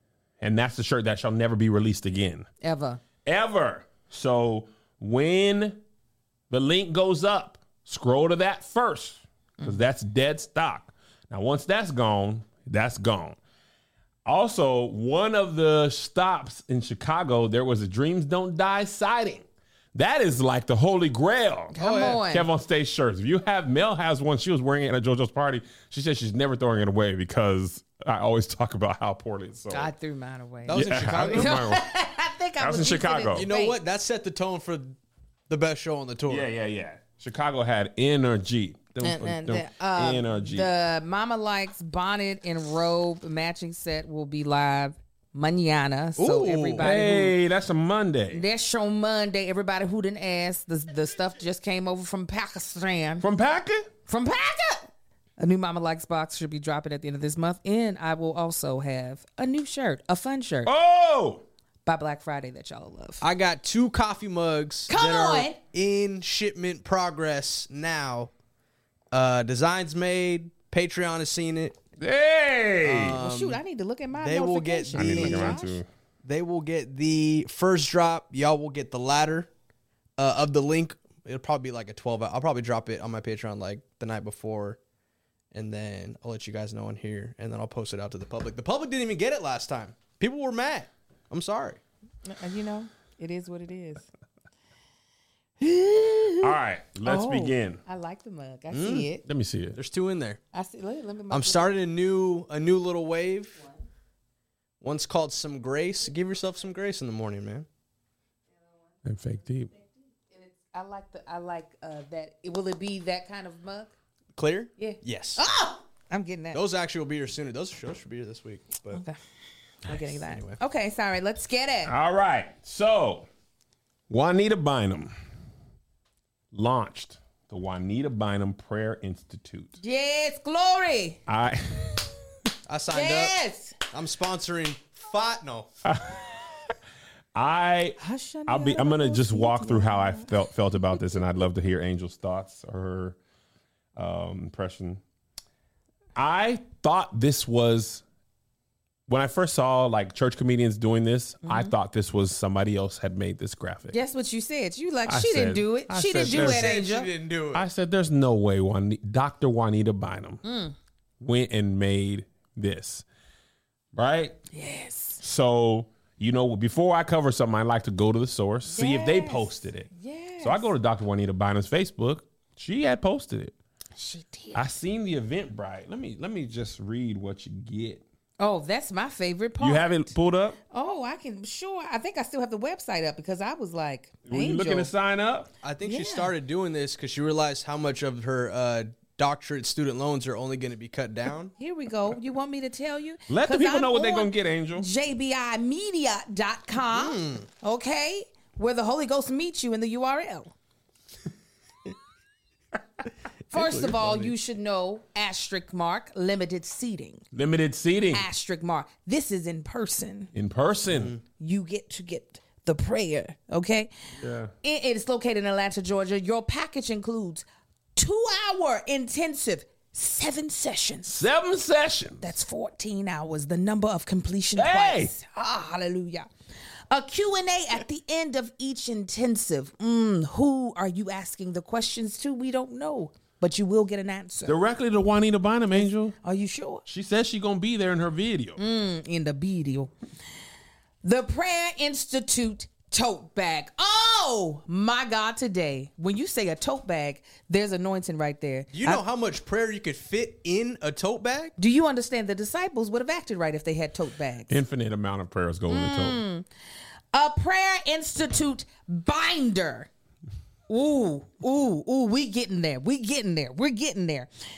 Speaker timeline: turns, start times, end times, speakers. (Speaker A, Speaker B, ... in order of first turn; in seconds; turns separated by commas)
Speaker A: 0.4-2.5, Speaker B: 2.6-3.0, Speaker A: 3.2-5.8, Speaker A: 6.5-13.4, Speaker A: 14.2-29.9, Speaker B: 21.7-22.5, Speaker C: 21.8-22.2, Speaker B: 29.7-33.8, Speaker C: 30.7-31.6, Speaker A: 30.7-31.9, Speaker A: 32.6-33.5, Speaker C: 33.4-35.0, Speaker C: 35.5-36.5, Speaker A: 36.3-40.7, Speaker B: 39.0-47.4, Speaker C: 46.2-46.9, Speaker A: 46.8-48.4, Speaker B: 48.3-53.2, Speaker A: 53.2-53.9, Speaker B: 54.1-60.7, Speaker A: 60.6-61.4, Speaker B: 61.8-63.2, Speaker C: 63.2-68.3, Speaker B: 64.9-65.6, Speaker C: 69.1-71.8, Speaker A: 72.0-73.2, Speaker C: 72.8-73.6, Speaker B: 73.2-75.8, Speaker C: 74.2-75.6, Speaker A: 74.9-75.9, Speaker C: 76.2-79.5, Speaker C: 80.2-84.8, Speaker C: 85.5-91.8, Speaker B: 92.2-94.1, Speaker B: 95.6-99.2, Speaker A: 96.4-97.8, Speaker C: 98.7-99.1, Speaker A: 99.2-99.8, Speaker C: 99.7-100.4, Speaker B: 100.5-101.7, Speaker C: 101.3-103.6, Speaker C: 104.8-107.7, Speaker A: 109.0-109.7, Speaker B: 109.7-113.9, Speaker C: 114.3-115.4, Speaker B: 114.8-116.6, Speaker C: 116.5-119.0, Speaker B: 118.9-119.2, Speaker B: 119.8-121.9, Speaker C: 119.8-120.6, Speaker A: 121.8-123.3, Speaker A: 124.1-125.1, Speaker A: 126.5-129.8, Speaker B: 129.8-131.2, Speaker A: 131.3-132.2, Speaker C: 132.7-135.7, Speaker B: 132.9-133.8, Speaker A: 135.8-136.4, Speaker A: 137.3-143.2, Speaker B: 138.0-140.3, Speaker A: 143.9-145.0, Speaker A: 146.1-148.0, Speaker A: 149.1-153.9, Speaker B: 151.4-151.7, Speaker B: 153.9-157.1, Speaker A: 155.1-156.7, Speaker C: 156.2-157.7, Speaker A: 157.5-160.4, Speaker B: 160.4-160.7, Speaker A: 161.2-163.1, Speaker A: 163.9-164.4, Speaker B: 164.5-165.2, Speaker A: 165.2-169.9, Speaker B: 168.7-170.7, Speaker A: 170.4-173.5, Speaker B: 174.0-174.7, Speaker A: 174.5-178.0, Speaker B: 178.4-180.0, Speaker A: 179.6-180.6, Speaker B: 180.7-184.9, Speaker A: 184.2-185.5, Speaker C: 185.6-191.5, Speaker B: 185.8-186.3, Speaker B: 191.6-200.5, Speaker A: 193.3-194.8, Speaker C: 196.9-197.4, Speaker B: 203.5-207.2, Speaker C: 203.5-204.3, Speaker A: 207.3-208.2, Speaker B: 208.1-210.3, Speaker A: 210.3-211.1, Speaker C: 210.9-211.2, Speaker B: 211.4-213.9, Speaker A: 214.2-214.5, Speaker B: 214.6-221.2, Speaker A: 221.1-222.3, Speaker B: 222.2-226.3, Speaker A: 224.5-225.1, Speaker B: 226.9-234.6, Speaker A: 234.4-236.1, Speaker B: 235.7-236.8, Speaker A: 236.8-238.6, Speaker B: 238.6-239.9, Speaker B: 241.0-249.0, Speaker C: 248.7-251.5, Speaker B: 251.6-254.5, Speaker A: 254.5-256.2, Speaker B: 255.7-256.5, Speaker B: 257.1-259.9, Speaker B: 260.7-264.3